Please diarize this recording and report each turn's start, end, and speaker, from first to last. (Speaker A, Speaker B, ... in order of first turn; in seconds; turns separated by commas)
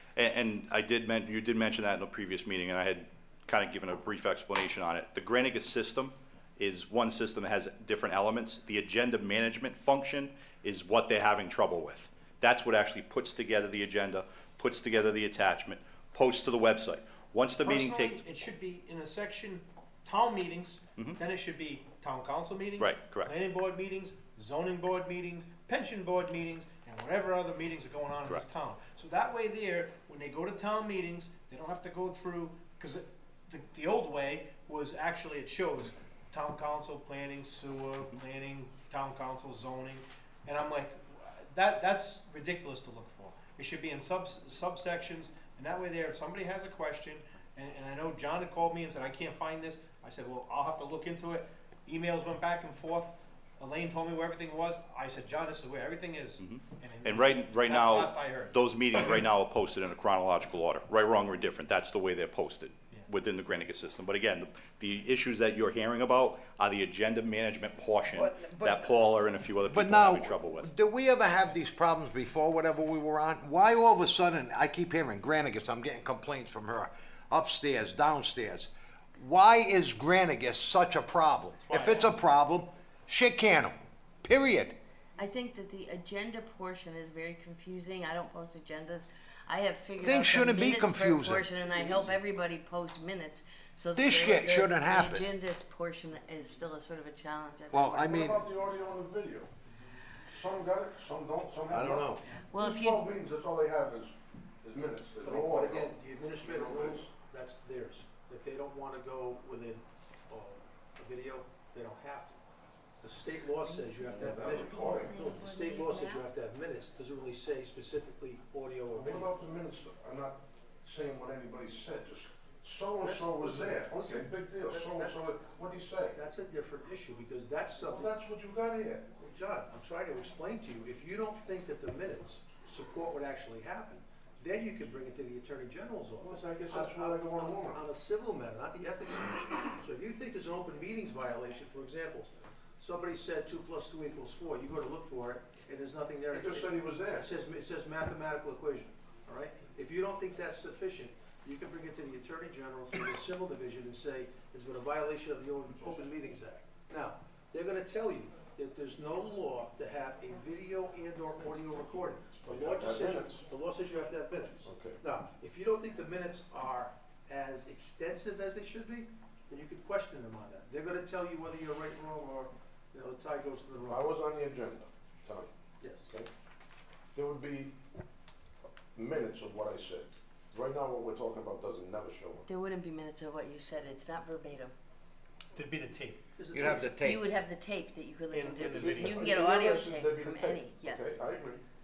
Speaker A: 0.1-18.2, Speaker B: 17.6-59.2, Speaker A: 22.8-23.3, Speaker A: 56.4-70.7, Speaker C: 68.1-69.0, Speaker C: 69.6-84.7, Speaker B: 81.6-82.2, Speaker D: 85.2-98.3, Speaker C: 90.0-91.5, Speaker E: 91.6-92.1, Speaker C: 93.9-95.3, Speaker C: 97.7-98.4, Speaker E: 98.0-99.5, Speaker E: 100.3-107.1, Speaker C: 101.7-102.2, Speaker D: 102.5-103.1, Speaker F: 105.2-112.4, Speaker F: 113.0-119.3, Speaker D: 113.6-116.2, Speaker E: 114.1-115.3, Speaker E: 118.9-126.2, Speaker F: 123.0-125.2, Speaker F: 126.1-128.1, Speaker E: 127.8-129.1, Speaker F: 129.2-174.1, Speaker E: 136.2-137.8, Speaker E: 146.3-147.3, Speaker E: 162.4-163.4, Speaker E: 164.6-165.0, Speaker E: 173.9-175.5, Speaker F: 175.8-176.1, Speaker E: 177.1-177.7, Speaker E: 178.9-182.4, Speaker D: 182.5-184.7, Speaker B: 185.5-186.2, Speaker F: 186.3-186.9, Speaker C: 186.5-187.3, Speaker D: 187.0-191.2, Speaker B: 188.3-189.4, Speaker E: 188.6-191.6